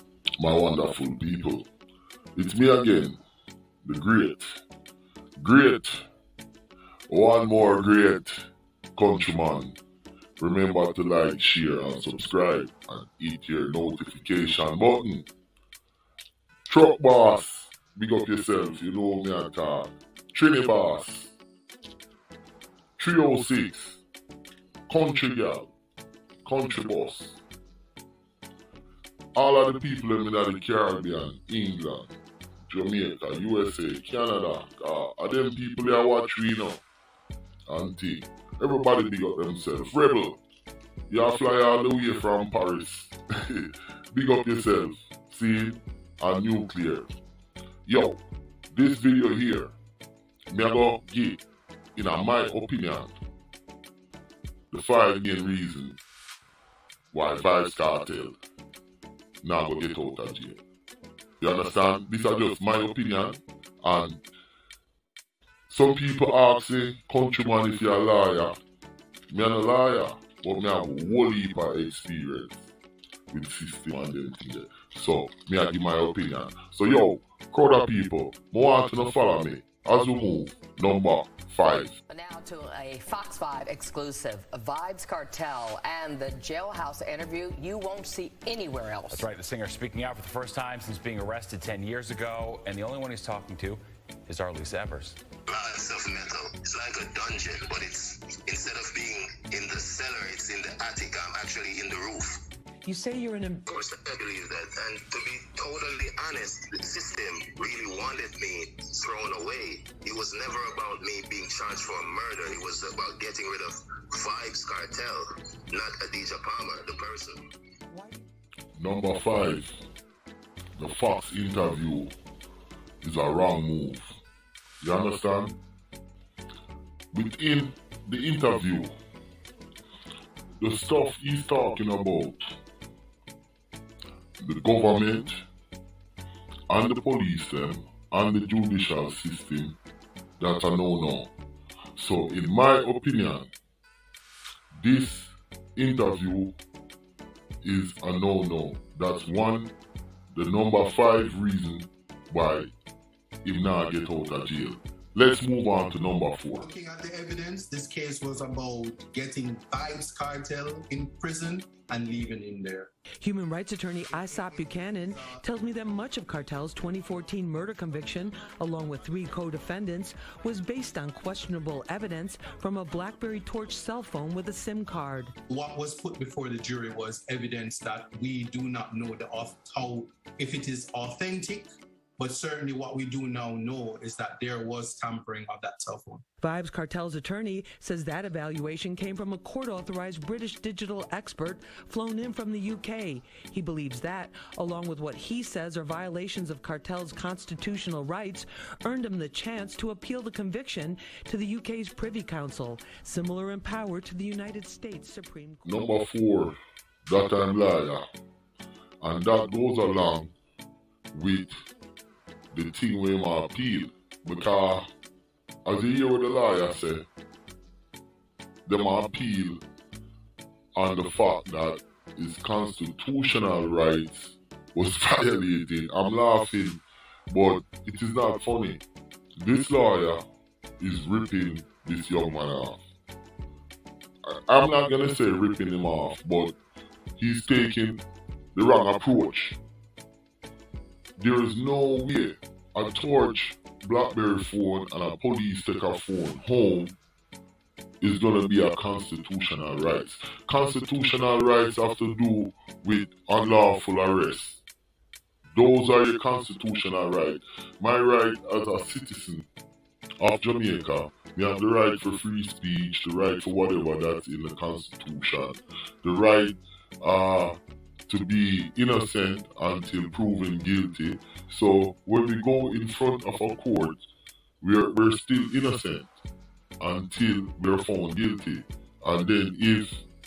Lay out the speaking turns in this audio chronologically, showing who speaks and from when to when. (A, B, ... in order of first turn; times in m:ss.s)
0:00.4-0:01.6 A
0:02.4-0:03.2 A
0:03.8-0:04.5 A
0:05.4-0:06.0 A
0:07.1-0:08.4 A
0:09.0-0:09.8 A
0:10.4-0:15.3 A
0:16.7-0:21.4 A
0:23.0-0:24.0 A
0:24.9-0:25.7 A
0:26.4-0:27.4 A
0:29.4-0:32.1 A
0:32.7-0:36.8 A
0:37.7-0:40.4 A
0:41.1-0:47.1 A
0:47.8-0:48.2 A
0:48.7-0:49.7 A
0:50.5-0:51.4 A
0:52.0-0:53.1 A
0:54.7-0:56.0 A
0:57.1-0:58.4 A
0:59.4-1:00.6 A
1:01.4-1:04.2 A
1:05.7-1:08.6 A
1:09.3-1:12.7 A
1:13.3-1:22.0 A
1:22.1-1:29.3 B
1:29.0-1:35.2 C
1:35.5-1:42.3 D
1:42.8-1:43.6 E
1:43.7-1:57.4 D
1:57.9-1:58.2 E
1:58.8-1:59.7 A
2:00.8-2:02.1 A
2:03.0-2:04.1 A
2:04.8-2:05.6 A
2:07.1-2:08.9 A
2:10.6-2:12.4 A
2:14.4-2:15.4 A
2:16.7-2:19.8 A
2:20.4-2:21.3 A
2:22.0-2:23.5 A
2:24.7-2:26.6 A
2:27.6-2:29.7 A
2:30.3-2:32.7 A
2:33.4-2:36.7 A
2:36.6-2:42.9 F
2:43.2-2:55.3 E
2:44.1-2:45.4 F
2:55.5-3:01.7 F
3:02.2-3:06.2 F
3:06.4-3:25.8 E
3:25.6-3:28.0 A
3:29.0-3:30.3 A
3:31.1-3:31.5 A
3:32.5-3:34.9 A
3:35.6-3:37.0 A
3:38.6-3:39.6 A
3:40.8-3:48.8 A
3:49.4-3:50.2 A
3:50.8-3:52.8 A
3:54.2-3:56.6 A
3:57.2-3:58.0 A
3:58.5-3:59.6 A
4:01.2-4:07.0 A
4:08.0-4:14.6 A
4:15.6-4:19.5 A
4:20.2-4:34.0 A
4:34.6-4:36.1 A
4:36.8-4:40.0 A